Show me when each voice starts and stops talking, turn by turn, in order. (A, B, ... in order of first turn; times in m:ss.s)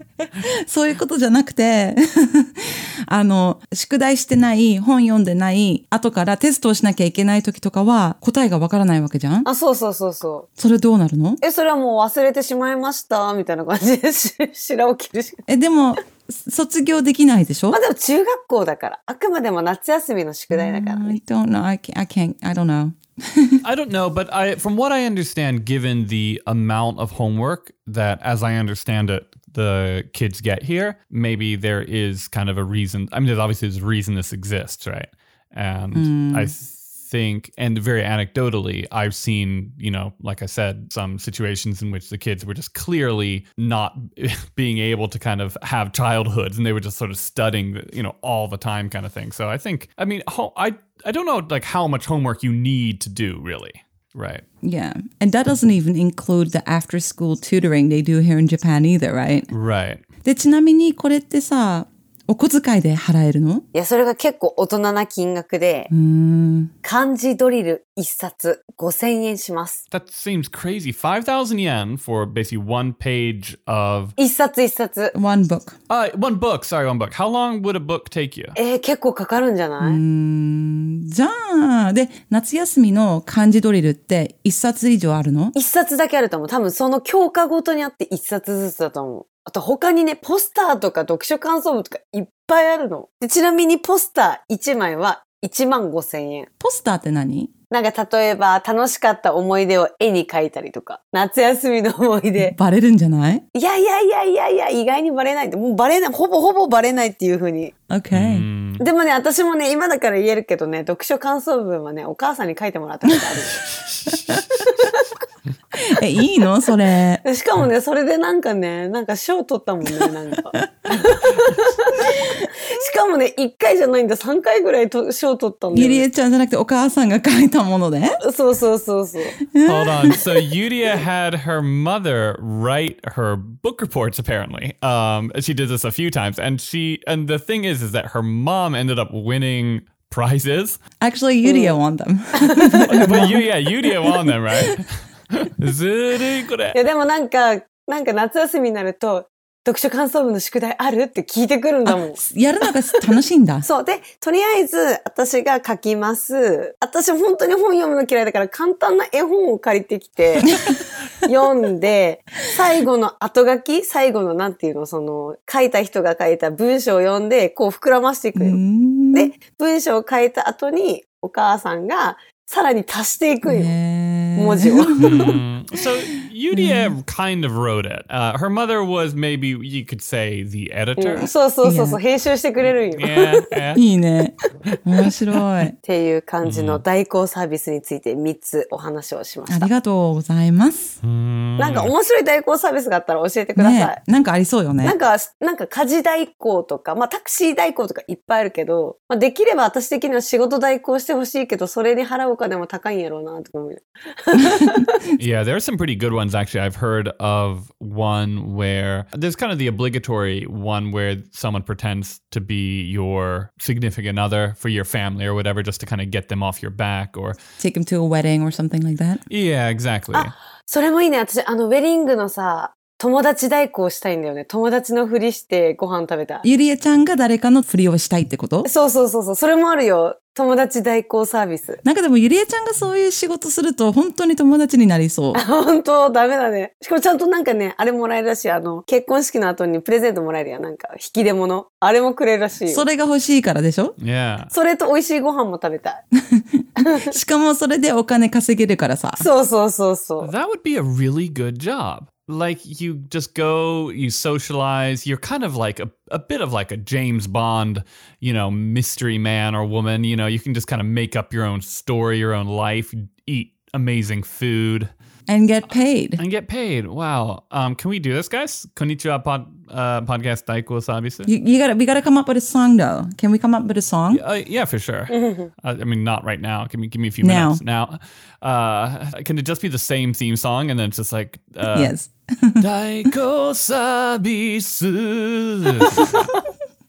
0:00.2-0:09.5 A
0:09.4-0:10.5 B
0:10.6-0:11.4 A
0:11.4-0:15.4 B
0:15.5-0:17.8 A
0:17.7-0:21.2 B
0:20.5-0:23.6 A
0:23.6-0:54.4 C
0:35.9-0:36.5 A
0:54.6-0:59.5 A
0:59.5-1:00.0 C
1:00.2-1:03.6 A
1:03.7-1:05.9 B
1:05.9-1:06.7 A
1:06.8-1:09.8 B
1:09.9-1:14.2 C
1:14.2-1:15.2 B
1:15.1-1:15.8 A
1:15.9-1:18.6 C
1:18.6-1:20.0 B
1:19.8-1:25.5 A
1:25.5-1:36.5 B
1:36.6-1:37.5 A
1:37.7-1:42.5 B
1:42.4-1:43.4 A
1:43.5-1:47.7 B
1:47.9-1:48.5 A
1:48.1-1:48.9 C
1:48.8-1:53.6 B
1:54.5-1:55.0 B
1:55.8-1:57.2 A
1:57.2-2:06.1 B
2:00.0-2:00.7 A
2:05.7-2:08.2 A
2:08.2-2:09.4 B
2:09.5-2:10.2 A
2:09.6-2:20.8 C
2:21.0-2:23.5 A
2:21.4-2:21.8 B
2:22.4-2:23.1 B
2:22.9-2:26.8 C
2:24.0-2:24.4 A
2:26.8-2:32.2 B
2:31.8-2:33.7 A
2:33.6-2:48.6 B
2:48.4-2:49.3 A
2:49.1-2:53.7 B
2:53.4-2:55.3 A
2:54.4-2:55.3 B
2:55.0-3:01.3 C
2:56.5-2:57.0 A
3:01.0-3:03.4 B
3:01.6-3:02.0 A
3:03.0-3:03.8 C
3:03.7-3:05.8 A
3:05.8-3:09.7 B
3:06.4-3:06.8 C
3:09.5-3:11.0 A
3:11.0-3:11.9 C
3:11.6-3:14.0 B
3:13.6-3:15.0 A
3:14.8-3:24.9 B
3:25.2-3:37.4 C
3:37.6-3:39.2 A
3:39.3-3:40.3 C
3:40.1-3:46.4 B
3:46.4-3:48.7 A
3:48.6-3:51.8 B
3:51.8-3:55.4 A
3:55.3-4:02.9 B
4:02.7-4:04.0 A
4:04.0-4:04.5 C
4:04.5-4:06.0 B
4:06.4-4:09.3 A
4:09.2-4:10.3 B
4:10.2-4:24.9 C
4:25.3-4:26.2 A
4:26.2-4:31.3 C
4:31.3-4:34.2 A
4:34.1-4:42.0 C
4:35.1-4:35.5 B
4:37.2-4:37.6 A
4:41.7-4:42.7 A
4:42.6-4:46.3 C
4:45.8-4:46.4 A